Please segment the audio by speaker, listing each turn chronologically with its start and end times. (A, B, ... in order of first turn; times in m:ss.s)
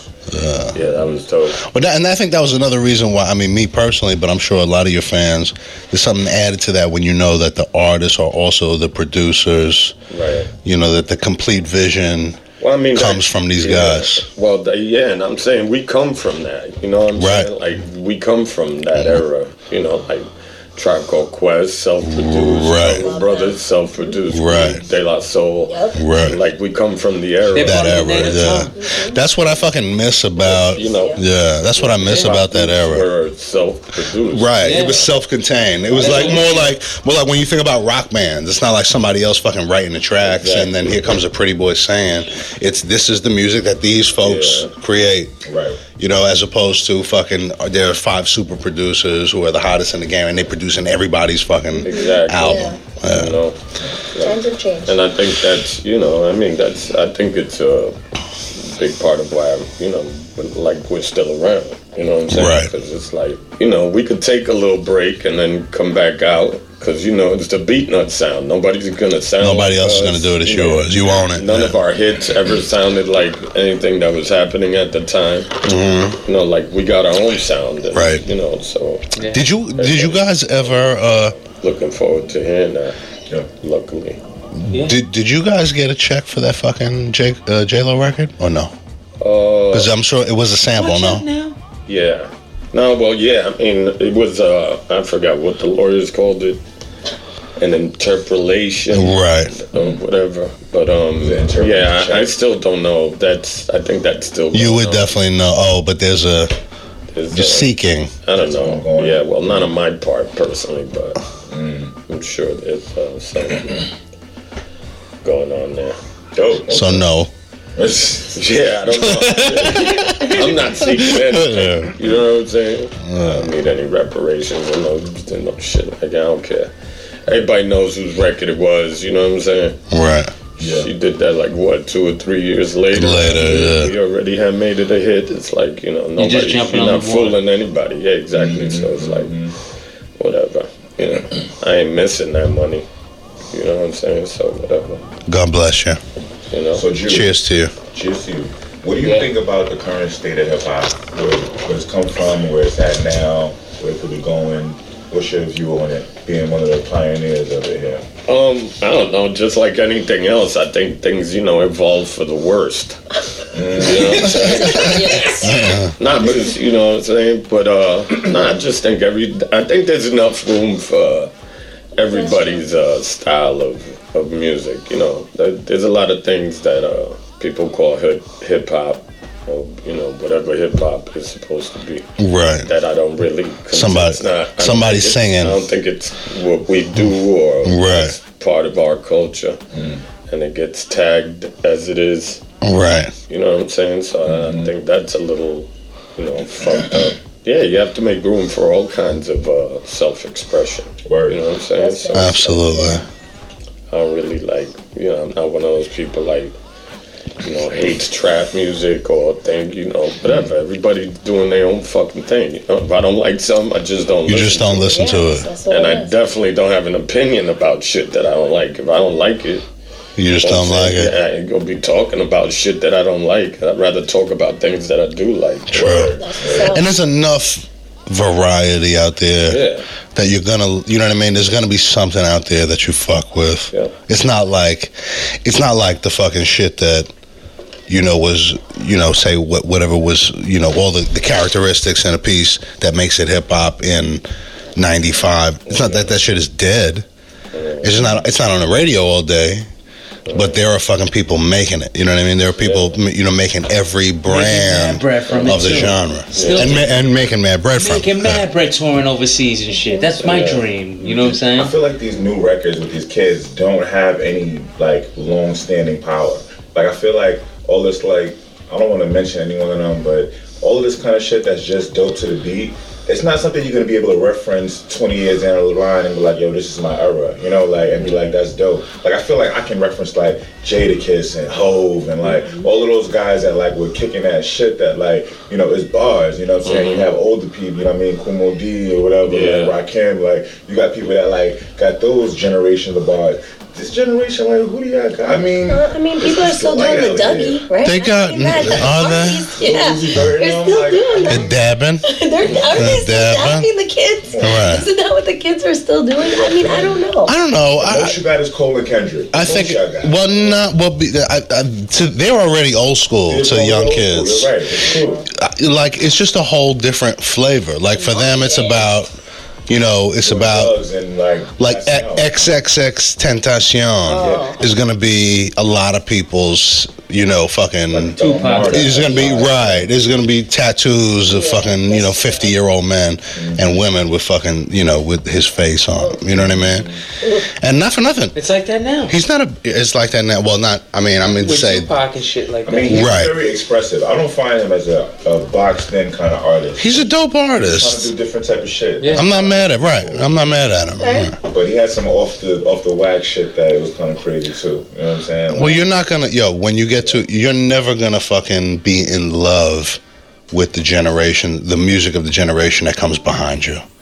0:00.3-0:00.8 A
0:00.7-0:01.6 B
0:01.6-0:09.9 A
0:10.1-0:10.5 B
0:10.6-0:12.4 A
0:12.6-0:28.5 B
0:12.9-0:14.2 A
0:17.1-0:17.5 A
0:18.9-0:19.2 A
0:22.0-0:23.2 A
0:23.0-0:24.1 C
0:24.3-0:24.8 A
0:25.7-0:26.0 C
0:25.9-0:26.4 A
0:27.5-0:28.8 D
0:27.6-0:33.1 A
0:28.7-0:29.2 C
0:30.4-0:35.1 B
0:30.4-0:31.2 C
0:34.3-0:45.4 A
0:34.6-0:35.1 D
0:35.9-0:36.5 E
0:36.0-0:36.8 D
0:40.2-0:41.2 B
0:44.2-0:44.7 B
0:45.4-0:45.8 E
0:45.9-0:53.4 A
0:51.8-0:53.6 B
0:51.8-0:52.8 C
0:54.1-0:58.0 B
0:54.2-0:55.0 C
0:58.5-1:15.6 B
1:02.3-1:02.7 A
1:09.4-1:11.8 A
1:15.6-1:16.2 A
1:16.2-1:19.2 B
1:17.9-1:18.2 A
1:19.2-1:19.4 D
1:19.3-1:21.4 A
1:19.7-1:20.8 B
1:21.4-1:23.0 B
1:23.6-1:24.2 B
1:24.5-1:28.7 A
1:24.7-1:25.0 D
1:29.2-1:29.9 B
1:29.7-1:31.3 A
1:30.7-1:31.6 D
1:31.9-1:36.6 B
1:37.6-1:45.2 B
1:38.9-1:39.6 A
1:39.7-1:40.0 E
1:41.2-1:42.3 E
1:44.5-1:46.6 A
1:47.1-1:51.2 B
1:47.3-1:48.1 A
1:48.4-1:49.7 E
1:51.5-1:52.0 E
1:52.1-1:53.9 B
1:55.2-1:56.0 B
1:56.3-1:57.1 E
1:56.7-1:57.3 A
1:57.8-1:58.4 E
1:58.3-2:06.7 B
1:59.2-2:02.0 A
2:03.0-2:03.5 A
2:07.2-2:09.8 B
2:09.9-2:10.3 A
2:10.6-2:19.4 B
2:10.6-2:10.9 E
2:12.9-2:13.9 A
2:16.2-2:17.4 D
2:18.3-2:19.6 E
2:20.2-2:22.8 B
2:23.5-2:25.0 B
2:25.3-2:26.0 A
2:26.5-2:26.9 B
2:26.7-2:27.3 E
2:27.0-2:27.7 A
2:27.9-2:38.1 E
2:29.0-2:29.3 D
2:38.3-2:43.0 B
2:43.5-2:44.7 E
2:43.7-2:51.3 B
2:44.2-2:45.9 A
2:44.3-2:45.7 C
2:52.0-3:02.1 B
2:52.0-2:52.6 C
3:02.2-3:02.7 A
3:02.6-3:09.6 B
3:03.7-3:05.6 A
3:07.6-3:08.2 A
3:09.7-3:10.0 E
3:10.3-3:12.4 B
3:12.6-3:13.1 A
3:13.3-3:23.0 B
3:14.3-3:14.7 E
3:21.1-3:21.4 E
3:21.7-3:23.0 C
3:22.1-3:23.0 A
3:23.9-3:26.6 B
3:27.4-3:35.0 B
3:30.3-3:30.5 E
3:34.3-3:35.5 A
3:34.8-3:36.1 C
3:35.7-3:39.6 B
3:40.2-3:41.1 A
3:40.4-3:46.1 B
3:45.7-3:57.1 A
3:45.7-3:46.8 E
3:46.2-3:46.9 C
3:49.5-3:49.8 B
3:57.9-4:04.2 A
4:04.8-4:07.1 A
4:05.7-4:06.1 B
4:07.5-4:08.2 B
4:07.8-4:09.7 A
4:10.3-4:10.6 B
4:10.3-4:18.4 A
4:12.6-4:13.0 B
4:14.3-4:17.0 D
4:15.3-4:16.8 B
4:17.8-4:21.8 D
4:19.7-4:20.1 C
4:20.2-4:20.7 B
4:21.0-4:57.7 E
4:38.0-4:38.4 B
4:42.4-4:42.6 C
4:46.6-4:47.1 B
4:49.2-4:49.8 B
4:55.7-5:01.5 C
4:57.8-4:59.5 A
4:59.6-5:01.7 E
5:01.3-5:02.1 A
5:02.0-5:07.3 C
5:02.4-5:03.0 E
5:02.7-5:03.7 A
5:04.3-5:04.7 E
5:04.4-5:04.8 A
5:06.2-5:07.0 E
5:07.3-5:08.2 A
5:07.8-5:10.6 E
5:09.3-5:14.5 A
5:13.3-5:15.3 E
5:14.9-5:15.2 C
5:15.3-5:19.1 A
5:18.0-5:18.9 C
5:19.7-5:20.7 A
5:20.2-5:22.6 E
5:21.6-5:38.4 A
5:24.1-5:24.6 C
5:24.2-5:24.5 E
5:27.9-5:29.9 E
5:28.2-5:29.2 D
5:31.2-5:32.5 C
5:33.4-5:33.7 E
5:36.3-5:37.0 E
5:37.2-5:37.5 C
5:38.3-5:39.2 D
5:39.1-5:41.9 A
5:41.3-5:43.1 D
5:42.6-5:50.5 E
5:42.8-5:43.3 A
5:46.8-5:48.1 A
5:49.0-5:49.3 D
5:49.1-5:51.4 A
5:51.0-5:51.3 C
5:51.5-5:55.8 E
5:55.5-6:00.0 A
6:00.5-6:03.8 A